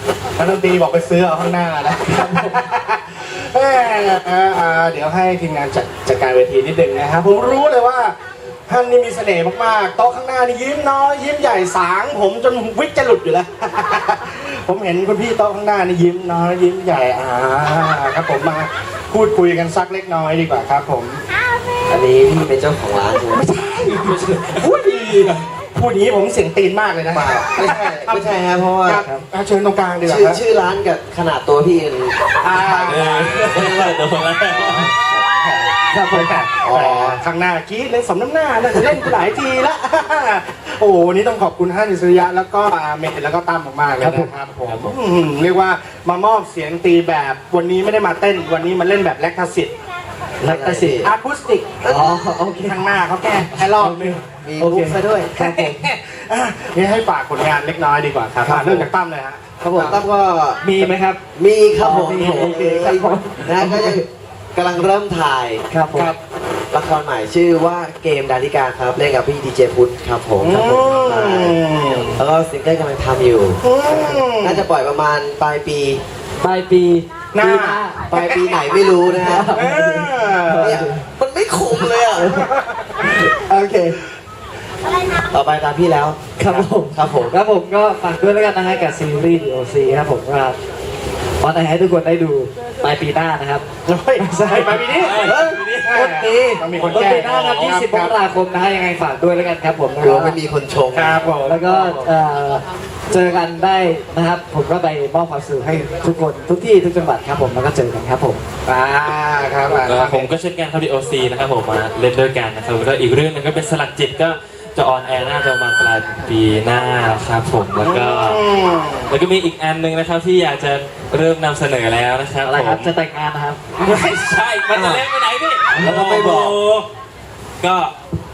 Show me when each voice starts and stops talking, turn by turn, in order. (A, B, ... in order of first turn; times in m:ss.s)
0:00.4-0:08.2 A
0:02.2-0:02.5 B
0:08.7-0:21.2 A
0:21.9-0:23.5 C
0:23.4-0:28.3 A
0:27.1-0:29.0 C
0:28.8-0:30.4 A
0:30.0-0:35.0 C
0:32.4-0:33.3 A
0:32.8-0:34.9 D
0:35.1-0:49.7 A
0:35.9-0:36.5 B
0:36.6-0:37.2 C
0:44.0-0:44.3 B
0:44.7-0:44.9 D
0:50.4-0:51.1 C
0:50.4-0:51.0 B
0:51.0-0:54.2 A
0:51.8-0:52.2 C
0:51.8-0:52.9 B
0:53.6-0:55.8 B
0:54.4-0:55.4 C
0:55.4-1:00.0 A
0:58.4-0:58.9 C
0:59.6-1:05.6 C
1:00.6-1:01.2 B
1:01.8-1:04.0 B
1:05.7-1:06.1 B
1:06.7-1:11.6 C
1:10.4-1:12.2 A
1:12.2-1:16.0 C
1:13.6-1:14.6 A
1:16.4-1:18.2 B
1:17.3-1:18.6 A
1:18.1-1:19.5 C
1:19.0-1:21.0 B
1:19.5-1:20.8 A
1:20.6-1:22.5 C
1:22.3-1:23.0 A
1:23.0-1:24.0 B
1:25.3-1:27.4 C
1:26.4-1:30.6 B
1:31.4-1:33.6 B
1:33.9-1:35.3 A
1:34.2-1:40.4 B
1:35.0-1:36.0 D
1:35.2-1:35.6 C
1:35.8-1:38.2 A
1:40.0-1:41.3 C
1:40.9-1:42.1 A
1:41.4-1:48.4 B
1:48.6-1:50.3 A
1:49.8-1:58.4 D
1:57.8-1:59.1 A
1:59.1-2:02.9 D
2:02.4-2:03.6 B
2:03.8-2:06.9 D
2:04.7-2:05.1 C
2:05.8-2:06.6 C
2:05.8-2:06.1 B
2:07.6-2:07.9 D